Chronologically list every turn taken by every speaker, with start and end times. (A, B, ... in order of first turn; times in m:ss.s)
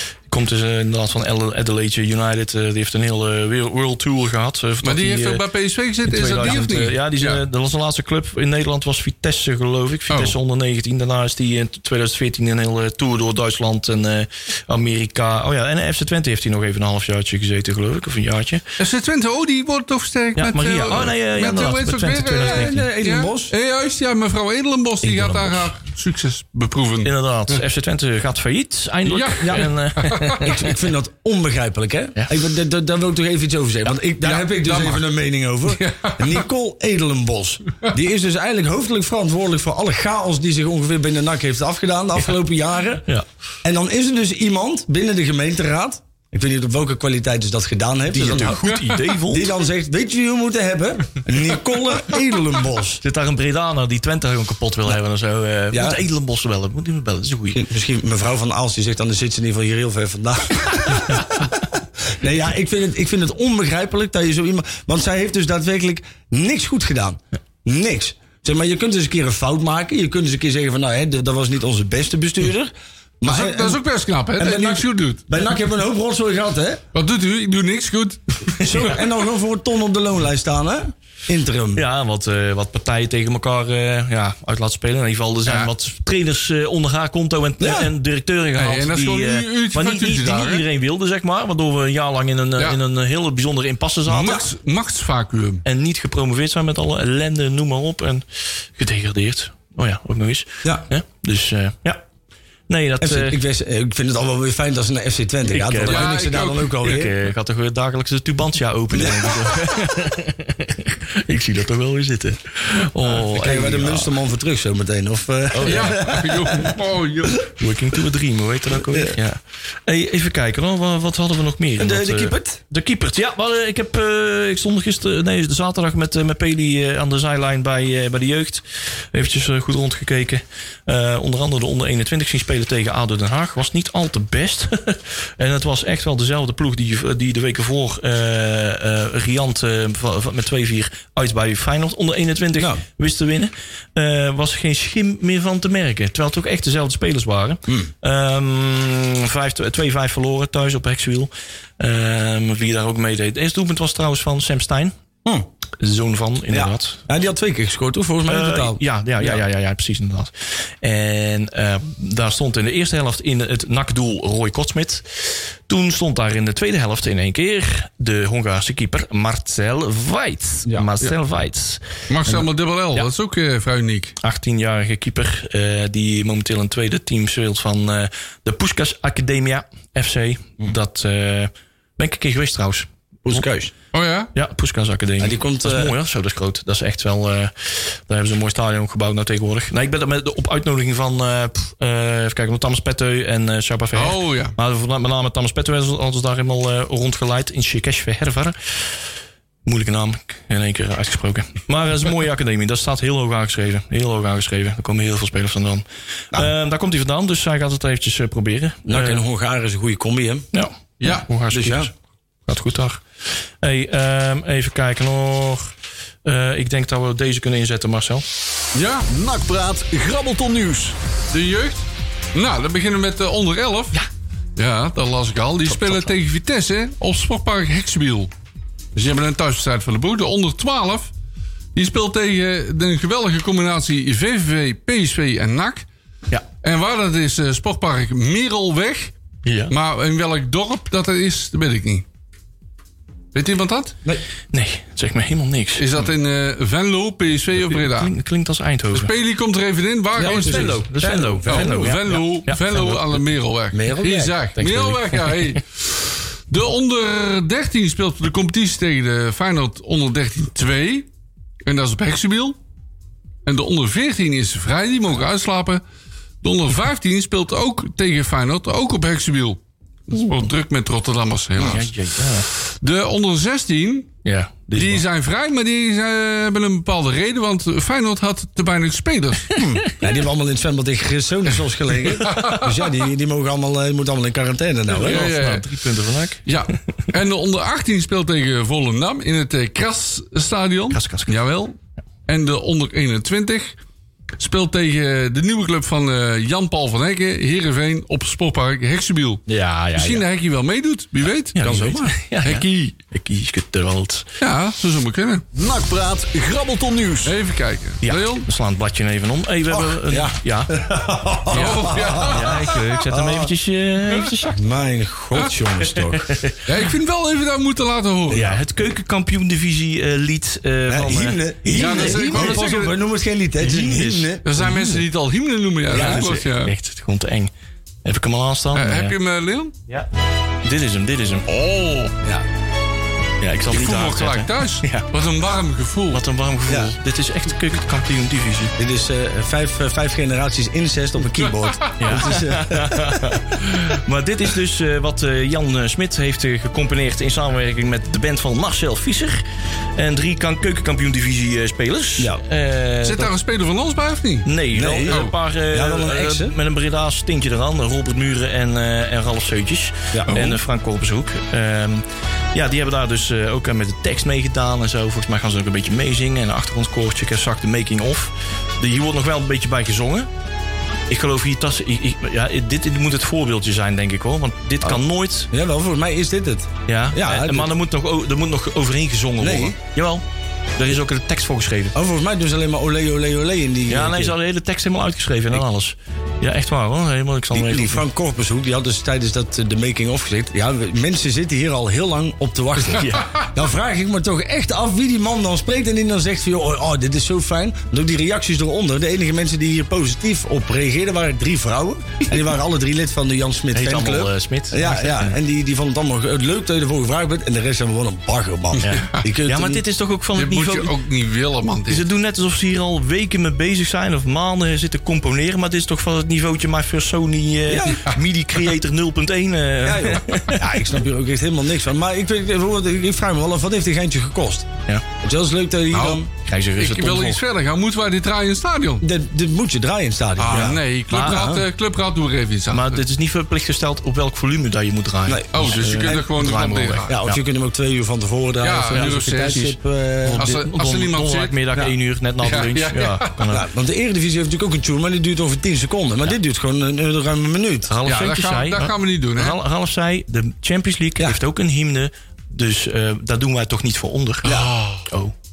0:00.3-0:05.4 A
0:04.8-0:07.4 B
0:06.1-0:18.6 A
0:10.1-0:10.4 B
0:18.8-0:27.6 B
0:20.4-0:22.9 A
0:22.4-0:23.5 C
0:27.0-0:30.7 A
0:29.1-0:30.4 B
0:29.4-0:29.7 C
0:30.4-0:43.1 C
0:34.2-0:35.0 B
0:35.7-0:36.4 B
0:43.6-0:48.6 C
0:48.1-0:49.5 A
0:49.3-0:53.0 C
0:53.0-0:57.6 A
0:55.7-0:56.0 C
0:57.5-1:13.8 C
1:13.2-1:15.2 B
1:14.4-1:16.8 C
1:16.9-1:18.8 B
1:18.6-1:21.8 C
1:21.8-1:34.4 A
1:25.5-1:25.7 B
1:27.6-1:27.9 C
1:28.6-1:30.6 B
1:34.1-1:35.6 B
1:34.2-1:34.4 C
1:35.6-1:42.0 A
1:42.7-1:43.4 A
1:43.0-1:47.1 C
1:45.5-1:46.2 A
1:45.9-1:47.0 B
1:46.8-1:54.1 A
1:48.9-1:49.4 C
1:53.0-1:56.8 C
1:55.5-1:56.0 A
1:55.6-1:57.5 B
1:57.5-2:34.9 A
1:58.8-1:59.2 C
2:01.8-2:02.6 C
2:22.6-2:22.8 C
2:35.8-2:37.1 A
2:36.5-2:39.4 C
2:38.2-2:53.1 A
2:52.1-2:54.2 B
2:54.2-3:03.4 A
3:03.2-3:03.7 C
3:03.9-3:04.3 B
3:04.3-3:18.8 A
3:05.2-3:05.9 C
3:13.9-3:14.6 B
3:19.6-3:29.2 A
3:28.9-3:30.5 C
3:30.5-3:31.9 A
3:31.0-3:31.3 B
3:31.5-3:31.9 C
3:32.5-3:33.0 A
3:33.6-3:35.7 A
3:36.2-3:38.2 A
3:38.8-3:39.1 B
3:39.1-3:40.9 D
3:41.3-3:44.0 B
3:44.6-3:48.3 B
3:48.9-3:51.1 B
3:51.7-3:55.9 B
3:56.6-3:59.1 B
3:59.4-3:59.7 A
3:59.7-4:02.0 B
4:03.3-4:04.0 B
4:04.5-4:05.9 A
4:05.8-4:08.1 B
4:07.6-4:09.1 A
4:08.9-4:10.8 B
4:10.2-4:12.0 C
4:10.2-4:13.0 A
4:11.5-4:21.1 B
4:13.7-4:14.4 C
4:14.6-4:15.6 A
4:21.6-4:22.6 B
4:23.4-4:25.8 B
4:26.4-4:31.9 B
4:31.6-4:32.5 A
4:32.5-4:34.1 B
4:34.2-4:35.0 A
4:34.8-4:39.5 B
4:39.6-4:45.3 C
4:42.2-4:42.7 B
4:44.9-4:46.4 A
4:45.0-4:45.6 B
4:46.5-4:51.8 B
4:50.9-4:51.4 A
4:52.3-4:53.8 B
4:54.4-4:59.4 B
4:59.5-5:00.2 A
4:59.9-5:01.6 B
5:01.6-5:04.3 A
5:01.6-5:02.2 C
5:02.4-5:02.9 B
5:04.4-5:05.5 B
5:05.6-5:07.3 D
5:07.2-5:08.5 B
5:08.0-5:10.9 A
5:09.7-5:13.5 C
5:11.5-5:12.8 B
5:11.5-5:14.6 A
5:14.5-5:16.4 C
5:16.2-5:16.6 A
5:16.6-5:18.5 B
5:18.3-5:22.9 A
5:20.9-5:24.4 C
5:21.7-5:22.9 B
5:23.6-5:25.0 A
5:24.4-5:26.7 B
5:25.9-5:26.3 C
5:25.9-5:27.5 A
5:28.0-5:29.2 A
5:28.7-5:29.7 B
5:30.6-5:31.5 A
5:31.5-5:32.1 B
5:33.4-5:35.1 A
5:33.7-5:36.2 B
5:36.1-5:38.8 A
5:36.7-5:36.9 C
5:38.8-5:43.3 C
5:42.0-5:49.4 A
5:49.9-5:53.3 A
5:52.2-5:52.4 C
5:53.0-5:54.5 B
5:54.4-6:10.3 A
5:54.7-5:56.6 C
5:55.1-5:55.3 B
6:00.1-6:00.4 C
6:00.3-6:00.6 B
6:11.1-6:15.5 A
6:15.5-6:17.7 C
6:16.9-6:20.2 A
6:19.4-6:19.8 C
6:20.8-6:21.9 A
6:21.9-6:24.4 C
6:23.9-6:28.0 A
6:27.5-6:49.8 C
6:32.9-6:33.3 A
6:43.7-6:45.4 A
6:48.8-6:49.2 B
6:48.8-6:50.9 A
6:50.4-6:52.1 B
6:51.9-7:00.6 A
6:57.7-6:58.1 C
6:59.8-7:04.7 C
7:05.2-7:06.3 C
7:05.9-7:06.2 B
7:06.4-7:07.4 A
7:06.8-7:09.1 B
7:09.0-7:10.8 C
7:10.4-7:13.0 B
7:10.5-7:11.7 A
7:12.7-7:17.4 A
7:15.2-7:16.2 C
7:15.5-7:17.1 B
7:17.1-7:20.5 C
7:18.6-7:19.8 B
7:18.9-7:19.7 A
7:20.2-7:23.6 A
7:20.4-7:23.5 B
7:23.5-7:27.9 C
7:27.9-7:34.5 A
7:28.1-7:29.6 B
7:34.4-7:35.1 B
7:34.4-7:34.7 C
7:35.1-7:35.3 A